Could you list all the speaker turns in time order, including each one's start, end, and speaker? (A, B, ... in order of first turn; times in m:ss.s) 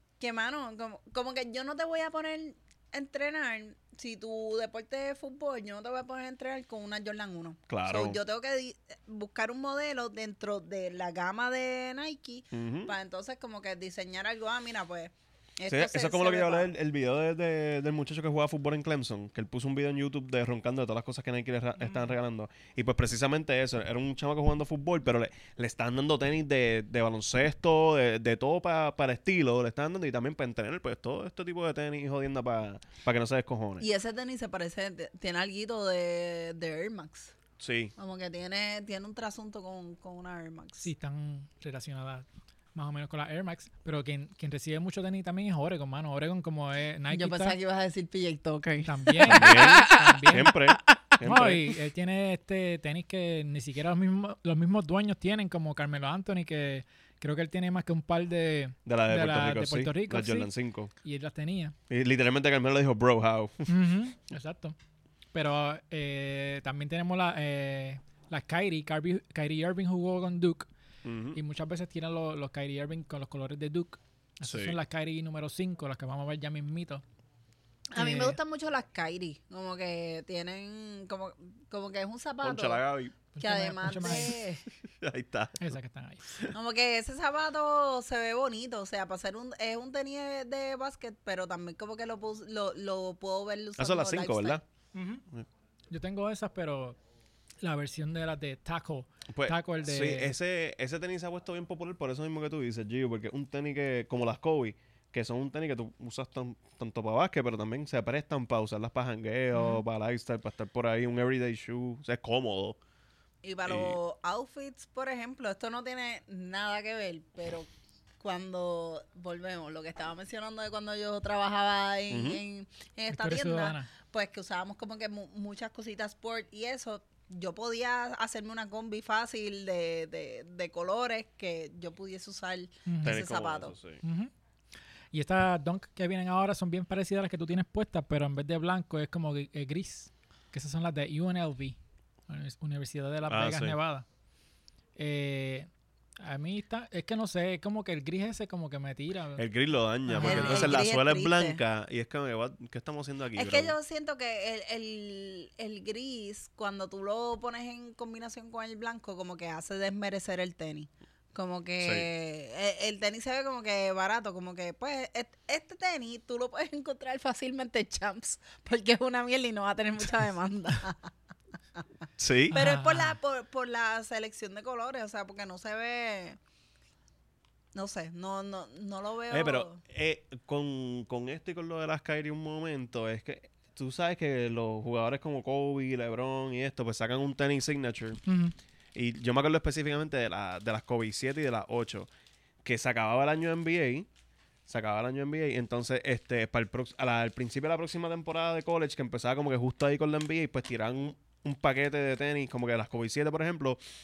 0:00.2-0:16.7 A
0:07.7-0:08.2 B
0:12.5-0:12.9 B
0:15.7-0:33.8 B
0:33.8-0:37.4 A
0:37.6-0:37.9 B
0:38.0-0:40.9 A
0:40.8-0:47.6 C
0:47.1-0:50.0 A
0:48.8-0:50.6 C
0:49.2-0:51.6 B
0:51.2-1:00.5 C
0:58.8-1:00.9 B
1:01.0-1:01.8 C
1:01.9-1:03.7 B
1:03.7-1:04.8 C
1:05.3-1:10.7 C
1:11.0-1:11.4 B
1:11.3-1:17.0 C
1:14.4-1:14.8 B
1:17.9-1:24.6 A
1:18.0-1:18.4 C
1:22.4-1:23.1 B
1:23.3-1:24.4 C
1:24.8-1:25.7 B
1:25.6-1:26.4 C
1:26.5-1:34.6 A
1:33.8-1:34.6 B
1:34.9-1:35.2 C
1:35.9-1:37.0 C
1:37.6-1:40.3 C
1:39.3-1:52.8 B
1:49.5-1:49.8 C
1:53.4-1:57.7 A
1:53.6-1:54.0 B
1:58.2-2:13.7 A
2:02.1-2:02.4 B
2:03.1-2:03.9 C
2:12.8-2:13.2 C
2:13.0-2:14.0 B
2:14.0-2:14.3 C
2:15.1-2:21.8 C
2:22.3-2:24.0 C
2:23.2-2:23.8 B
2:25.0-2:25.7 C
2:26.2-2:29.4 C
2:29.4-2:33.7 B
2:30.0-2:30.8 C
2:30.2-2:31.6 A
2:33.4-2:51.1 A
2:52.2-2:52.5 B
2:52.5-2:53.2 C
2:52.5-2:56.4 A
2:57.7-2:59.8 A
2:59.3-3:08.2 B
3:08.2-3:08.5 C
3:08.9-3:12.1 B
3:12.6-3:14.1 B
3:14.7-3:23.8 B